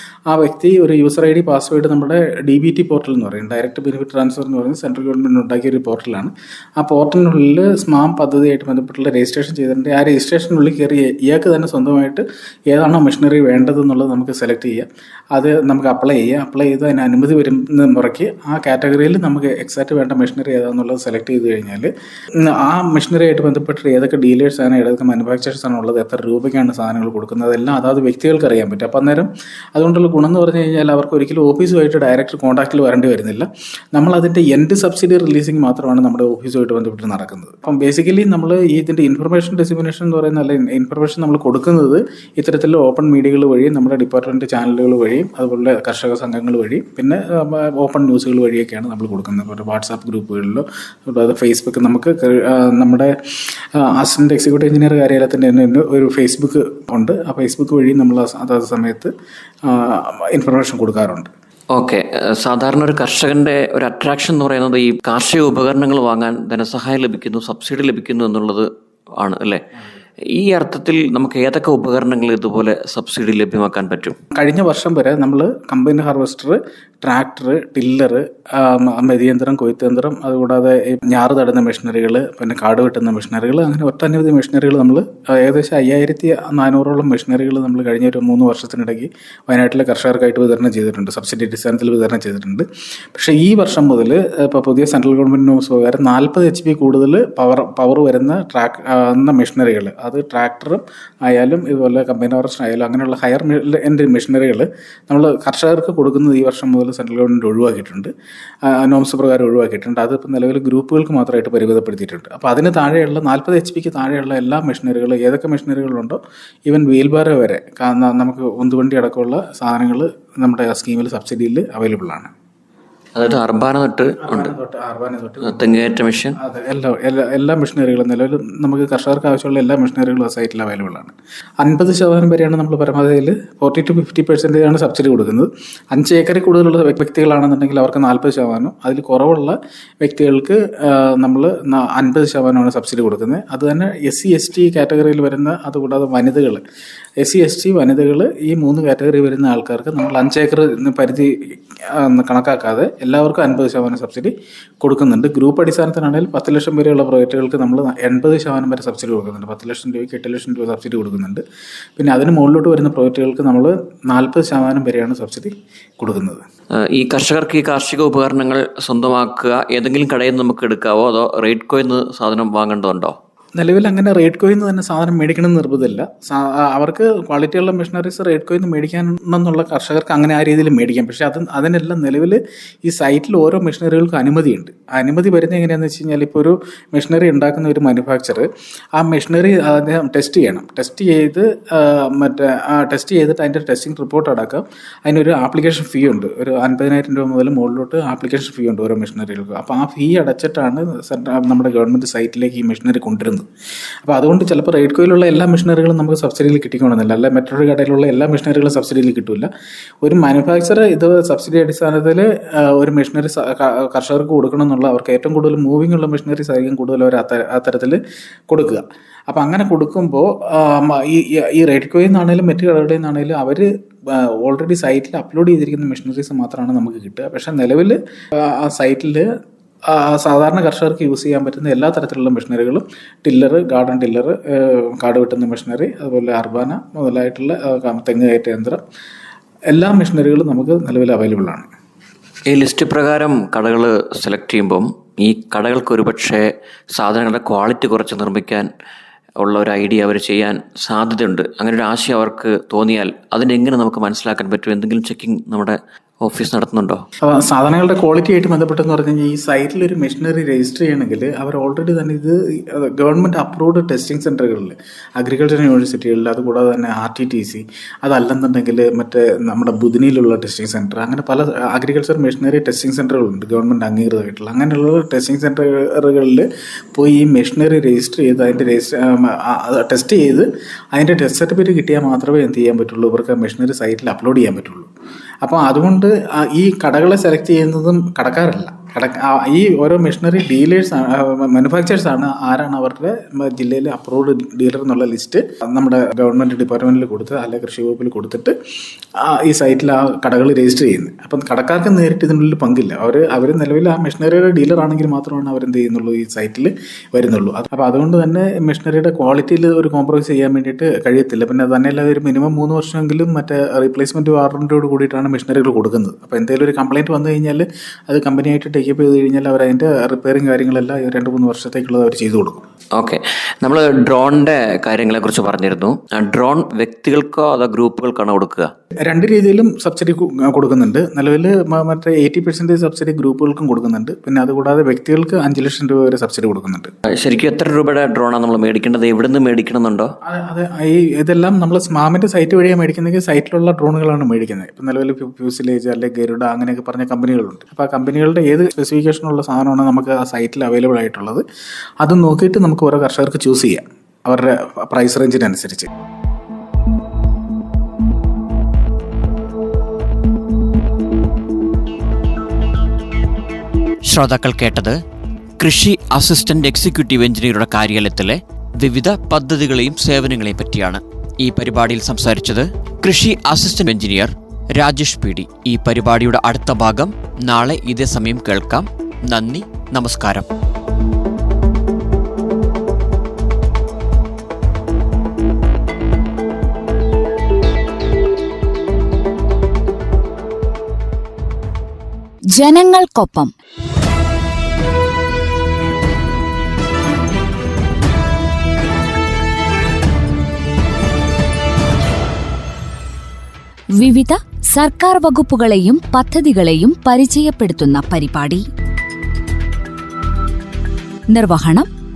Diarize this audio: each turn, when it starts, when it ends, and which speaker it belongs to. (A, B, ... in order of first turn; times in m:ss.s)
0:00.3-0:53.1 A
0:53.6-0:59.1 A
0:59.6-1:01.3 A
1:01.7-1:08.6 B
1:09.2-1:09.6 B
1:10.3-1:14.2 B
1:14.3-1:48.1 A
1:48.6-2:02.3 A
2:03.1-2:04.5 B
2:04.2-2:26.6 A
2:05.4-2:06.4 B
2:27.2-2:41.4 A
2:42.0-2:46.4 A
2:46.9-2:53.1 B
2:53.6-3:23.5 A
3:24.0-3:29.5 A
3:30.0-3:49.3 A
3:49.9-3:58.8 A
3:59.7-4:01.7 A
4:02.5-4:08.7 B
4:09.4-4:17.0 B
4:17.2-4:44.9 A
4:45.4-4:58.5 A
4:59.2-5:22.6 A
5:23.0-5:28.7 B
5:29.0-5:36.9 A
5:37.2-5:40.1 B
5:40.2-5:51.4 A
5:52.0-5:55.9 A
6:04.1-6:05.0 B
6:05.6-6:20.5 B
6:32.5-6:33.5 C
6:44.0-6:48.6 C
6:51.3-6:51.9 C